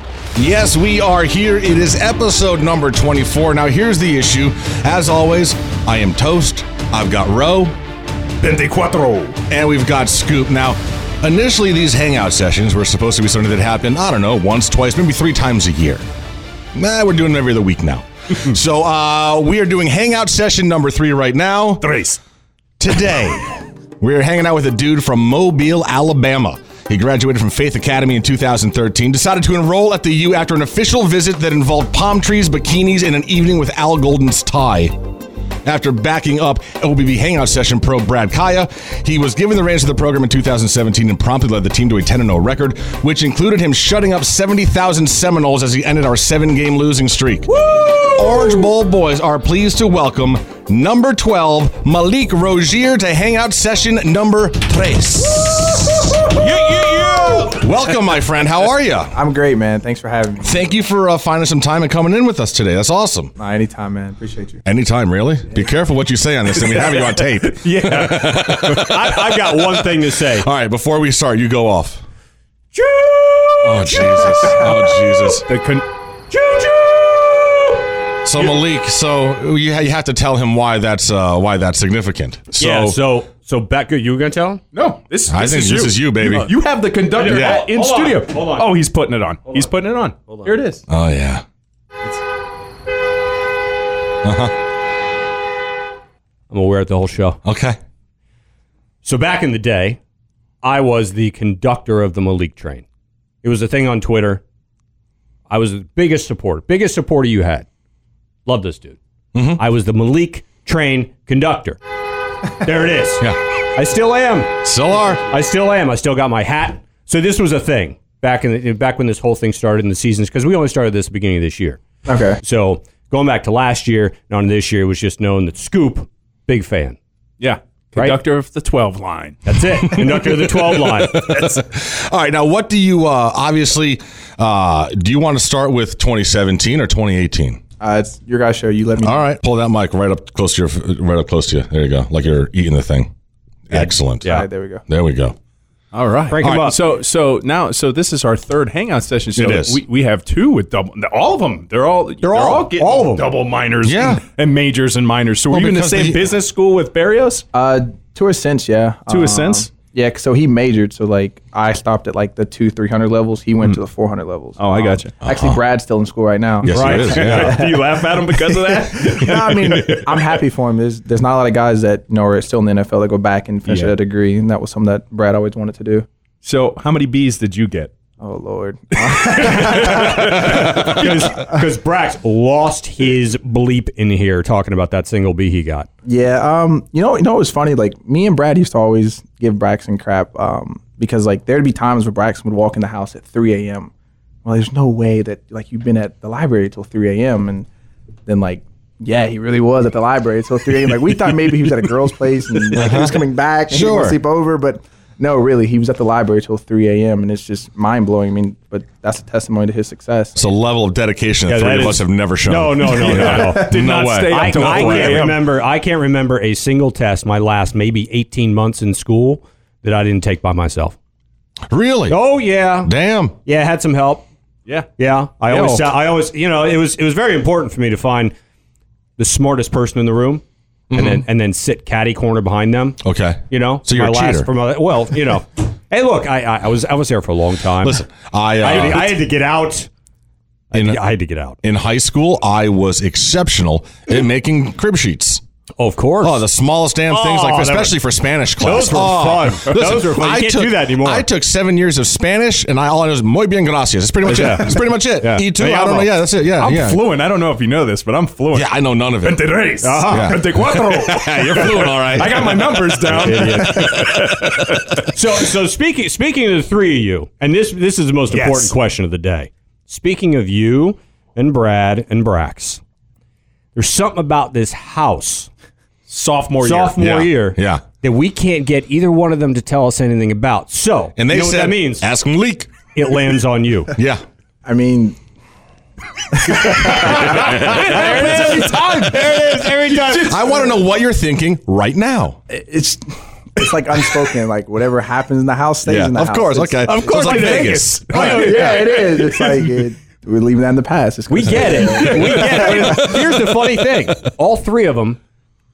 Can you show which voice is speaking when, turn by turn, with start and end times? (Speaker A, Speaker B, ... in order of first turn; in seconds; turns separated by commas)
Speaker A: 0.3-7.7, Speaker B: 8.4-9.4, Speaker A: 9.5-16.0, Speaker A: 16.7-21.9, Speaker B: 21.8-22.2, Speaker A: 22.8-34.9, Speaker A: 35.6-47.5, Speaker C: 47.6-48.6, Speaker A: 48.1-59.1, Speaker C: 56.4-57.5, Speaker D: 59.1-60.6, Speaker A: 60.4-63.3, Speaker D: 63.4-64.6, Speaker A: 64.6-69.4, Speaker B: 66.5-68.9, Speaker C: 68.6-70.5, Speaker A: 70.4-72.0, Speaker B: 72.7-77.8, Speaker A: 73.6-75.5, Speaker A: 78.2-83.0, Speaker C: 82.6-84.6, Speaker B: 84.7-90.8, Speaker A: 85.3-86.5, Speaker C: 86.2-86.5, Speaker C: 87.1-88.7, Speaker A: 87.2-87.7, Speaker A: 90.9-91.4, Speaker A: 94.2-94.5, Speaker C: 96.5-97.4, Speaker A: 97.4-97.8, Speaker C: 99.0-100.0, Speaker C: 100.6-102.8, Speaker C: 103.4-104.4, Speaker C: 105.5-107.7, Speaker C: 108.5-109.0, Speaker A: 109.3-109.6, Speaker C: 109.5-111.8, Speaker C: 112.6-114.5, Speaker A: 114.6-115.2, Speaker C: 115.2-121.8, Speaker D: 122.0-122.4, Speaker C: 122.4-127.0, Speaker B: 127.4-129.5, Speaker C: 129.4-131.2, Speaker A: 129.9-137.6, Speaker B: 131.1-131.6, Speaker D: 137.8-139.2, Speaker A: 139.0-143.1, Speaker A: 143.7-144.2, Speaker D: 143.7-144.8, Speaker A: 144.9-145.3, Speaker B: 145.9-157.4, Speaker C: 146.3-146.8, Speaker A: 146.4-146.7, Speaker A: 149.3-149.8, Speaker C: 152.2-153.3, Speaker A: 153.8-154.2, Speaker A: 155.5-156.2, Speaker D: 157.5-176.1, Speaker B: 159.1-159.7, Speaker B: 164.6-165.1, Speaker A: 165.2-165.6, Speaker A: 166.6-167.6, Speaker B: 166.7-170.4, Speaker B: 173.7-173.9, Speaker B: 176.4-177.9, Speaker D: 178.2-181.6, Speaker B: 179.0-181.2, Speaker C: 179.7-185.9, Speaker D: 186.0-193.9, Speaker D: 194.4-197.7, Speaker D: 198.2-210.5, Speaker A: 202.7-203.1, Speaker A: 203.7-204.2, Speaker A: 210.3-215.3, Speaker C: 211.5-213.6, Speaker B: 212.9-215.4, Speaker C: 214.3-220.9, Speaker A: 221.7-222.2, Speaker C: 222.1-222.9, Speaker A: 222.8-223.3, Speaker C: 223.4-224.2, Speaker C: 225.0-228.3, Speaker B: 225.5-225.8, Speaker C: 229.2-233.0, Speaker A: 230.9-231.2, Speaker A: 233.0-234.5, Speaker C: 233.5-238.0, Speaker A: 237.8-239.2, Speaker C: 238.6-239.9, Speaker C: 240.7-241.6, Speaker A: 240.7-241.0, Speaker A: 241.6-245.4, Speaker C: 245.8-246.4, Speaker A: 246.2-257.0, Speaker C: 247.1-248.0, Speaker C: 248.6-251.3, Speaker C: 254.2-255.9, Speaker B: 255.6-265.1, Speaker A: 258.5-259.4, Speaker C: 259.8-260.4, Speaker A: 260.1-262.8, Speaker C: 263.1-264.1, Speaker A: 264.2-264.8, Speaker C: 265.0-272.8, Speaker B: 268.3-268.7, Speaker C: 273.7-275.5, Speaker B: 276.1-276.9, Speaker C: 276.6-282.1, Speaker A: 277.0-277.8, Speaker A: 281.2-282.7, Speaker C: 282.9-283.9, Speaker A: 283.9-284.2, Speaker D: 284.6-285.2, Speaker D: 286.3-287.8, Speaker C: 286.7-290.6, Speaker B: 286.8-290.8, Speaker A: 287.3-287.7, Speaker A: 290.2-292.4, Speaker D: 292.5-296.8, Speaker A: 295.8-298.6, Speaker C: 296.8-298.7, Speaker B: 297.1-299.9, Speaker D: 298.1-303.1, Speaker C: 301.3-305.2, Speaker B: 301.7-303.2, Speaker A: 302.7-303.1